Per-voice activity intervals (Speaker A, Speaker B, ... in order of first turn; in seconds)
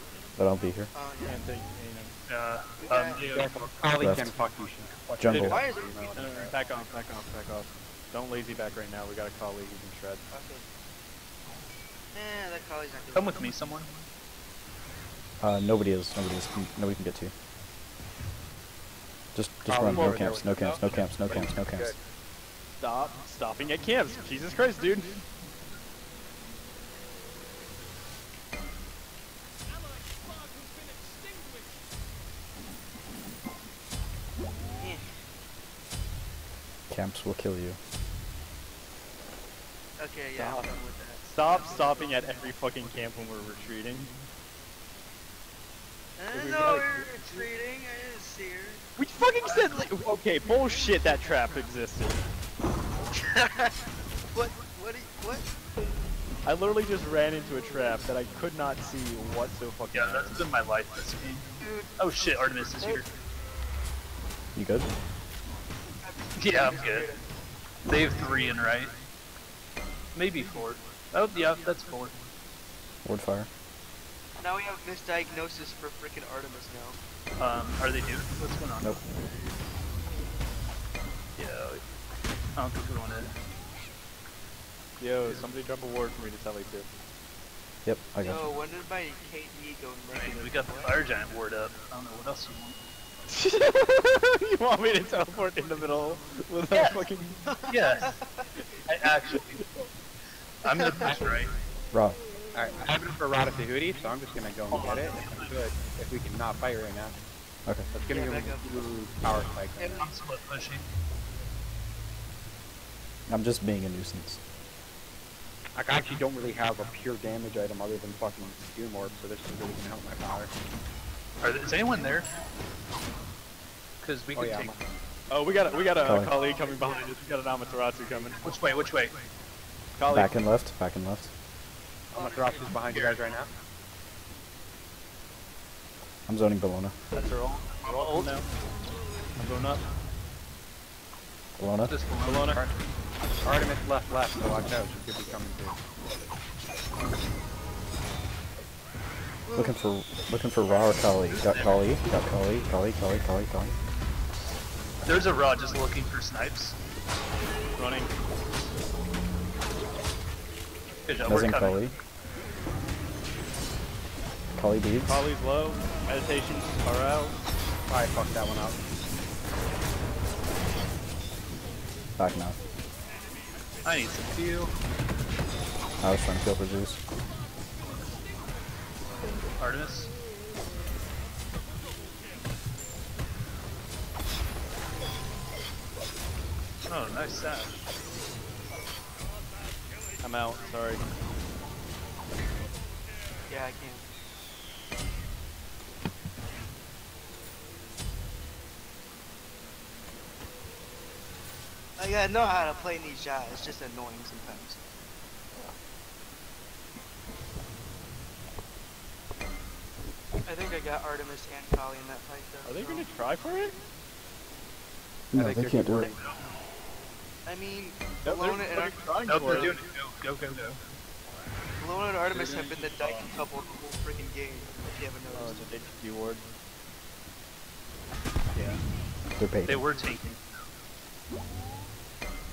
Speaker A: 0.4-0.9, 4.0-4.3, 5.2-5.6, 15.4-17.3, 19.4-21.9, 36.9-37.8, 64.5-64.9, 73.0-73.5, 87.8-88.5, 101.9-102.2, 113.3-114.4, 126.0-126.3, 130.1-131.3, 136.3-136.9, 141.6-141.9, 149.6-153.7, 161.2-161.9, 164.6-165.2, 172.2-172.6, 176.0-177.0, 215.3-216.1, 229.4-229.8
Speaker B: 0.9-1.4, 2.8-3.2, 5.3-6.5, 10.3-10.7, 12.1-13.4, 34.8-35.1, 40.0-42.5, 46.2-48.8, 49.4-49.9, 53.1-53.8, 54.3-55.5, 61.6-63.1, 66.0-67.2, 74.4-77.0, 88.2-91.0, 96.7-98.6, 100.7-101.1, 108.1-108.8, 109.8-110.1, 132.2-132.6, 149.5-149.8, 193.5-194.1, 202.0-204.8, 210.4-213.1, 217.4-219.8, 221.8-225.8
Speaker C: 1.2-2.1, 5.3-5.6, 6.2-10.3, 22.8-25.2, 41.3-44.1, 46.3-47.5, 49.0-52.2, 56.4-60.4, 85.0-86.9, 93.3-97.4, 125.3-128.4, 130.0-130.3, 137.1-138.3, 139.4-139.8, 142.2-142.6, 157.8-158.1, 165.1-167.4, 190.2-191.1, 212.7-213.8, 218.2-219.8, 225.3-226.4
Speaker D: 2.3-3.5, 5.1-5.6, 13.1-13.9, 19.9-21.1, 59.9-63.1, 66.4-67.1, 67.9-69.0, 70.1-72.2, 77.4-79.0, 81.4-81.8, 82.5-83.3, 90.1-92.8, 97.7-98.2, 98.9-99.6, 100.6-101.5, 104.7-105.6, 109.8-110.9, 121.4-122.3, 124.0-124.7, 128.4-129.2, 132.8-133.2, 137.8-138.5, 141.9-142.6, 151.3-151.8, 155.1-156.8, 161.1-161.8, 173.8-174.7, 179.6-180.1, 186.9-187.8, 216.0-216.4, 219.3-220.8, 222.3-223.3, 228.5-228.8, 229.7-230.7
Speaker E: 3.2-6.5, 19.7-22.0, 40.4-40.7, 102.5-107.2, 107.9-110.0, 115.8-120.5, 124.3-124.8, 132.1-133.5, 143.4-145.8, 167.9-168.8, 215.3-216.2